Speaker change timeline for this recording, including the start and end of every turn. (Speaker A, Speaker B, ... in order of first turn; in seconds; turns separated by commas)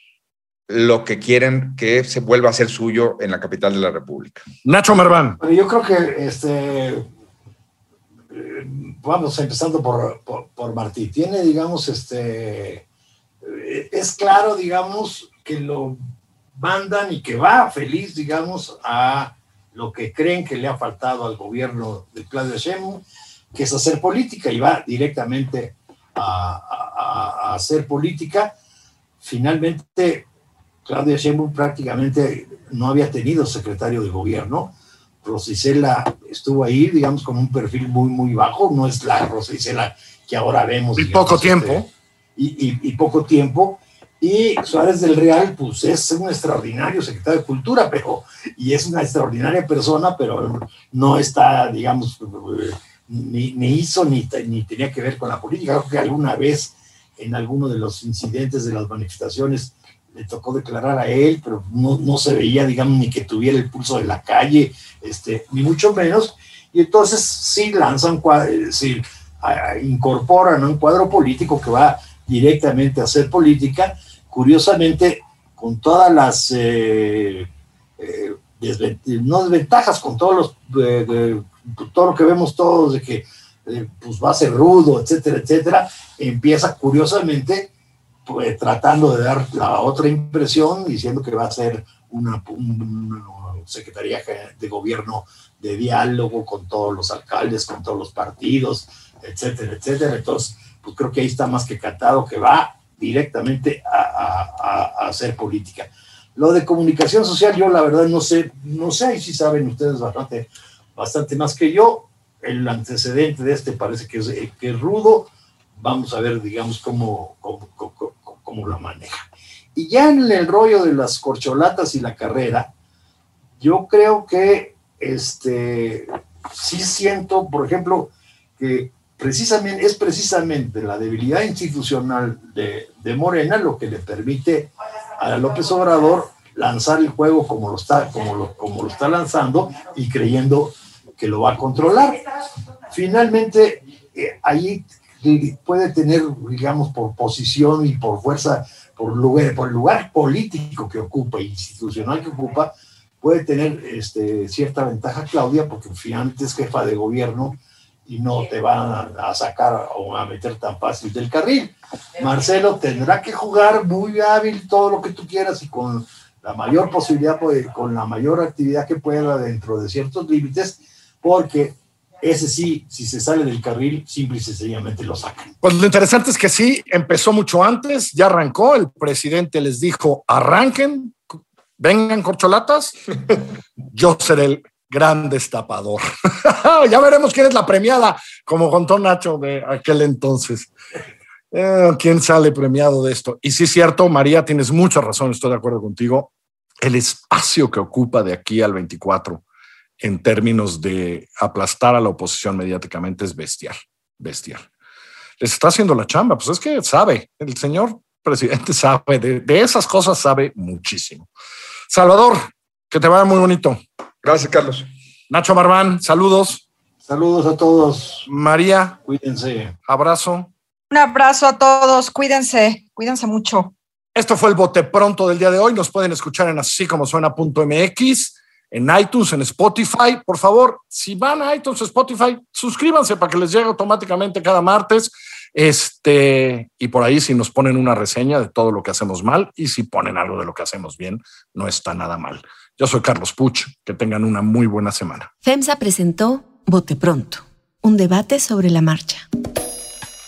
Speaker A: 0.7-4.4, Speaker B: 4.6-5.4, Speaker C: 5.4-7.0, Speaker C: 8.3-12.8, Speaker C: 13.4-16.0, Speaker C: 16.5-28.5, Speaker C: 29.2-30.3, Speaker C: 30.8-87.7, Speaker B: 41.0-41.9, Speaker C: 88.2-122.7, Speaker C: 123.6-142.2, Speaker C: 142.9-175.5, Speaker B: 175.6-181.2, Speaker B: 181.8-190.7, Speaker B: 191.5-196.3, Speaker B: 196.8-199.4, Speaker B: 200.0-204.7, Speaker B: 205.4-211.3, Speaker B: 211.9-213.8, Speaker A: 214.2-214.9, Speaker B: 215.3-216.6, Speaker C: 217.1-218.3, Speaker B: 218.3-219.0, Speaker C: 219.0-219.7, Speaker B: 219.9-220.5, Speaker D: 220.9-223.7, Speaker B: 224.1-245.3, Speaker E: 245.4-249.2